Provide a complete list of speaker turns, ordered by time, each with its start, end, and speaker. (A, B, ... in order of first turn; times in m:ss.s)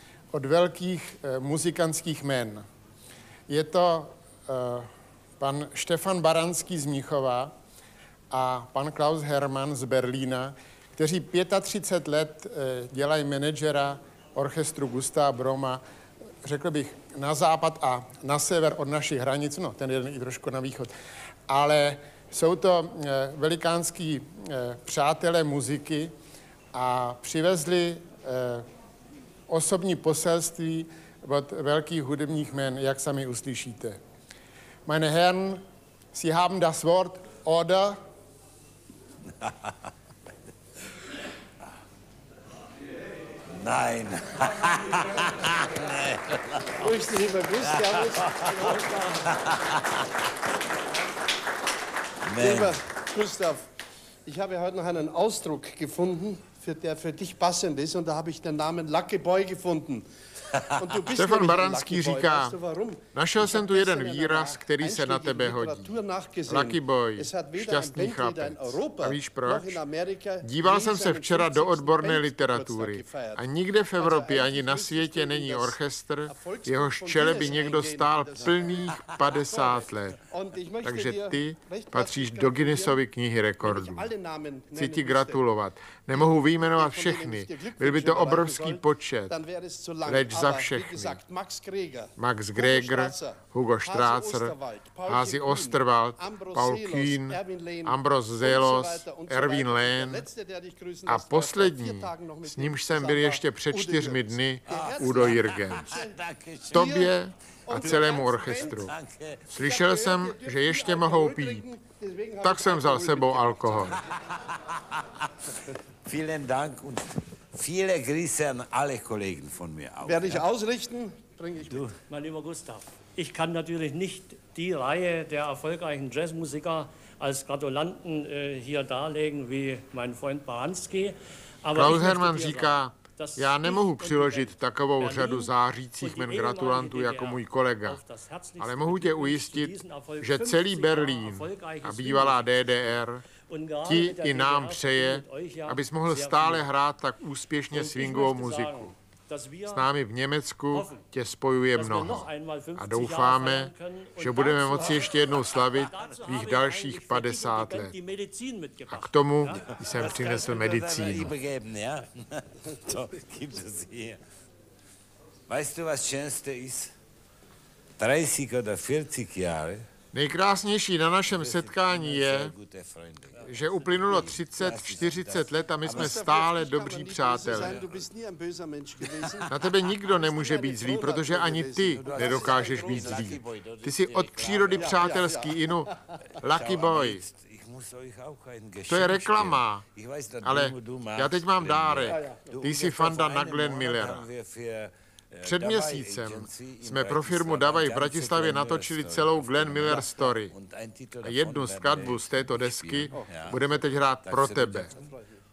0:00.3-0:02.6 A
0:03.5-0:07.5 A
0:08.3-0:15.8 A
0:16.4-0:20.9 A
0:21.5-0:26.1 A
0:26.7-0:28.6 A
0:29.5-0:34.0 A
0:34.8-0:38.0 A
0:39.4-0:39.7 B
0:43.5-0:46.8 B
0:46.8-0:49.2 C
0:47.6-0:48.7 B
0:49.2-0:49.8 B
0:52.2-0:52.8 B
0:52.4-0:53.6 C
0:54.2-1:00.0 C
1:00.7-1:23.0 C
1:01.1-1:02.6 A
1:03.1-1:05.9 A
1:06.5-1:09.8 A
1:10.4-1:20.2 A
1:20.8-1:24.1 A
1:23.6-1:25.4 C
1:24.7-1:29.4 A
1:26.1-1:46.2 C
1:30.0-1:31.2 A
1:32.2-1:40.3 A
1:41.1-1:45.8 A
1:44.7-1:46.9 B
1:46.7-1:47.1 C
1:46.7-1:48.9 A
1:47.7-1:48.8 C
1:48.6-1:49.5 B
1:49.5-1:51.6 A
1:49.5-1:53.9 C
1:52.4-1:54.0 A
1:56.0-2:00.5 B
2:00.0-2:01.9 C
2:01.6-2:02.0 B
2:02.1-2:22.8 D
2:11.7-2:18.0 A
2:18.6-2:23.2 A
2:23.5-2:26.7 D
2:23.8-2:28.9 A
2:27.7-2:30.0 D
2:29.7-2:38.0 A
2:30.7-2:31.0 D
2:31.7-2:40.7 D
2:38.9-2:41.3 A
2:39.8-2:44.2 B
2:45.5-2:46.9 B
2:48.0-2:49.8 B
2:50.1-2:52.5 A
2:51.3-2:56.2 B
2:53.5-2:57.8 A
2:55.8-2:59.5 C
2:57.5-2:58.0 B
2:59.1-2:59.3 B
2:59.5-3:07.2 A
3:00.1-3:03.2 C
3:02.0-3:05.3 B
3:04.7-3:05.5 C
3:06.4-3:23.7 B
3:08.9-3:09.8 A
3:10.4-3:14.2 A
3:12.1-3:12.5 C
3:15.4-3:20.5 A
3:21.2-3:24.9 A
3:24.2-3:25.1 B
3:25.0-3:25.2 C